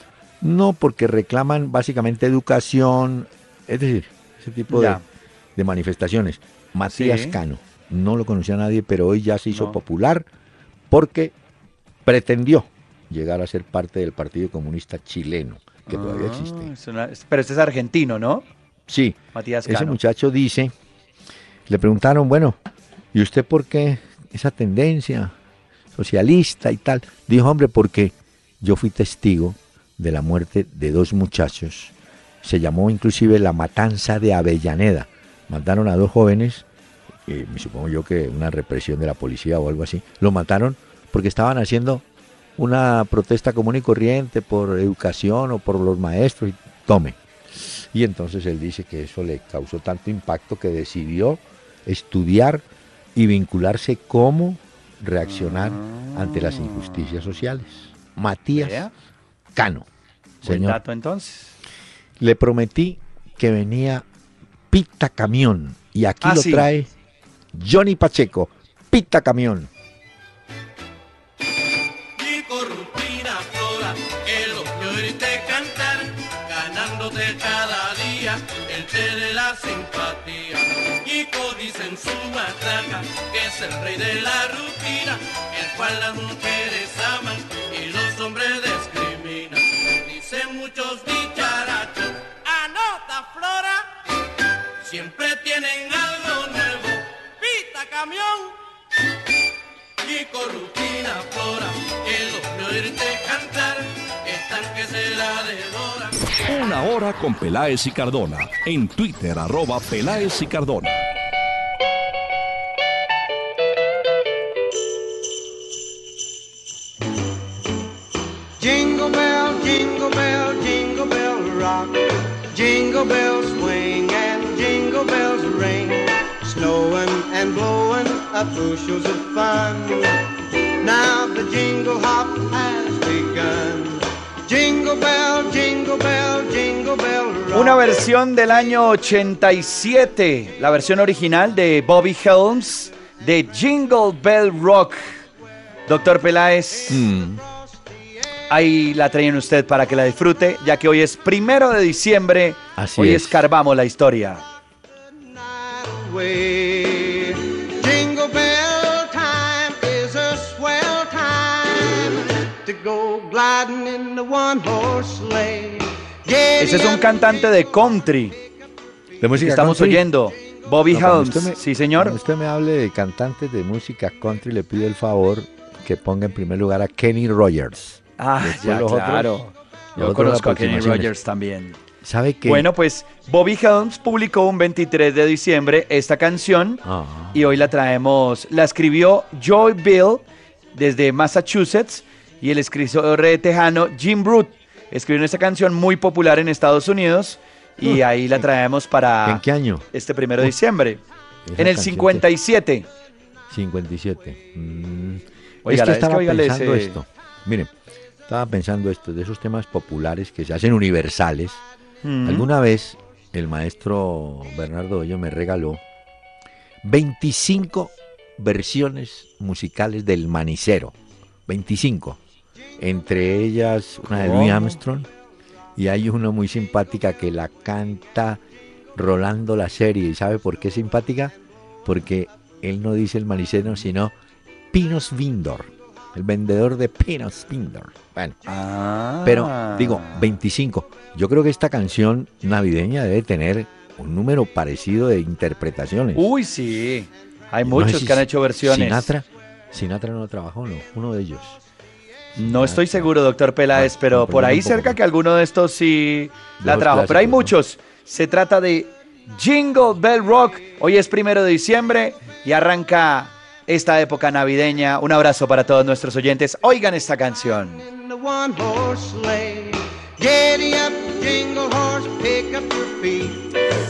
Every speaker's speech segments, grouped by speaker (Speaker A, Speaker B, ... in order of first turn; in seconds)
Speaker A: 0.4-5.0, 5.5-10.3, 10.9-11.3, 12.0-16.7, 18.9-20.7, 21.7-22.6, 23.1-25.3, 25.9-36.6, 37.2-42.0, 42.6-58.8, 59.5-59.9, 60.4-60.8, 62.2-64.0, 64.7-66.9, 67.5-69.7, 146.9-147.4, 152.8-153.4, 169.2-170.1, 170.9-181.1, 182.0-182.7, 186.8-187.4, 197.8-198.4, 199.2-199.9, 201.4-202.2, 203.5-207.7, 208.3-211.6, 212.2-215.8, 216.8-220.9, 221.5-222.2, 222.8-225.1, 225.8-228.4, 228.9-231.3, 231.8-234.1, 234.7-238.4, 239.2-246.3, 247.6-251.6, 252.3-253.1, 253.7-255.0, 256.6-257.5
Speaker B: 4.7-5.0, 6.9-7.4, 9.5-9.8, 15.9-18.4, 19.3-20.0, 55.2-57.4, 58.5-58.9, 60.4-61.5, 66.2-66.7, 137.5-145.1, 145.9-147.1, 148.5-154.4, 166.6-168.3, 169.4-172.2, 178.2-179.4, 180.0-181.8, 182.4-190.2, 190.7-201.0, 201.6-202.8, 205.7-206.9, 212.0-212.5, 224.0-224.8, 238.4-240.3, 246.1-249.1, 252.4-267.8
Speaker C: 72.2-93.9, 94.8-98.6, 100.0-106.3
Speaker D: 106.4-111.0
Speaker E: 118.6-130.3, 130.8-137.9, 155.2-167.3, 267.8-273.6